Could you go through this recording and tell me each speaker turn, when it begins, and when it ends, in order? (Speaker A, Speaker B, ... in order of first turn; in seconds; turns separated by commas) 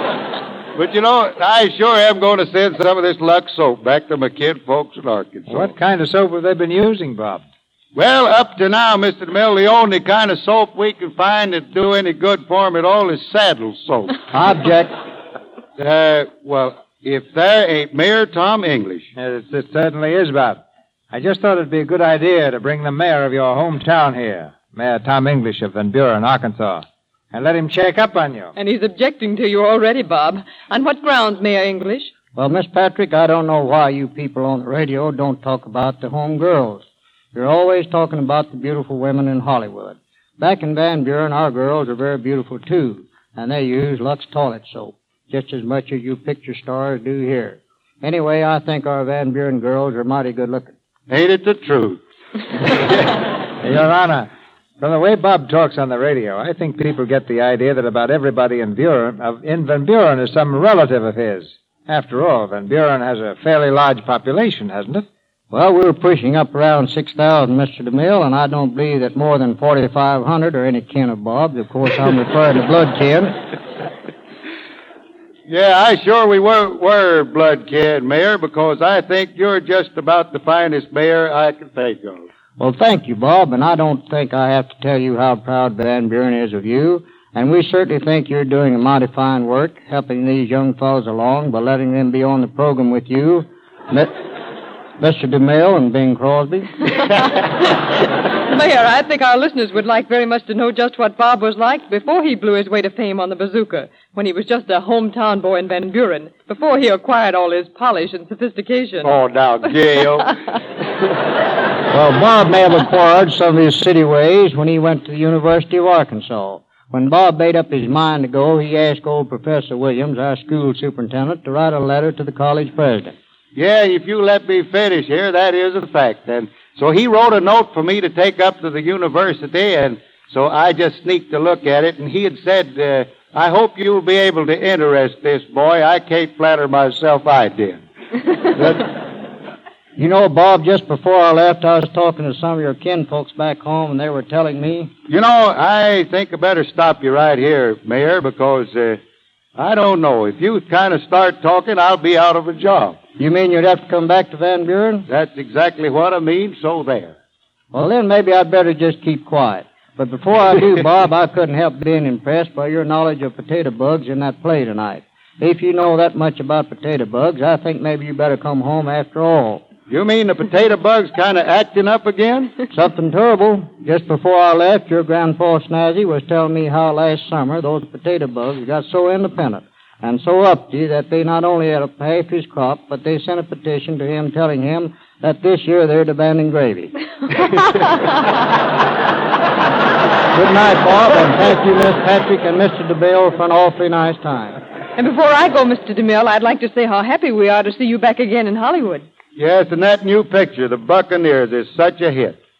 Speaker A: 0.7-5.7, Speaker B: 5.5-7.4, Speaker A: 8.0-14.2, Speaker C: 14.3-14.9, Speaker A: 15.8-19.1, Speaker B: 19.2-20.6, Speaker B: 21.1-28.5, Speaker D: 28.6-32.1, Speaker C: 32.3-50.7, Speaker A: 51.1-52.0, Speaker B: 53.6-54.3, Speaker B: 54.8-65.0, Speaker C: 65.5-73.3, Speaker A: 75.5-82.3, Speaker C: 82.6-94.2, Speaker C: 95.0-96.7, Speaker D: 97.4-109.2, Speaker A: 109.0-110.3, Speaker D: 109.7-110.3, Speaker C: 111.9-123.1, Speaker A: 123.5-137.8, Speaker A: 138.5-138.9, Speaker C: 139.9-144.9, Speaker A: 145.1-149.0, Speaker A: 149.6-153.0, Speaker C: 153.2-155.1, Speaker A: 155.1-157.2, Speaker C: 157.7-169.6, Speaker A: 169.9-172.6, Speaker C: 172.7-186.9, Speaker C: 190.3-194.6, Speaker D: 194.9-199.1, Speaker A: 199.4-202.4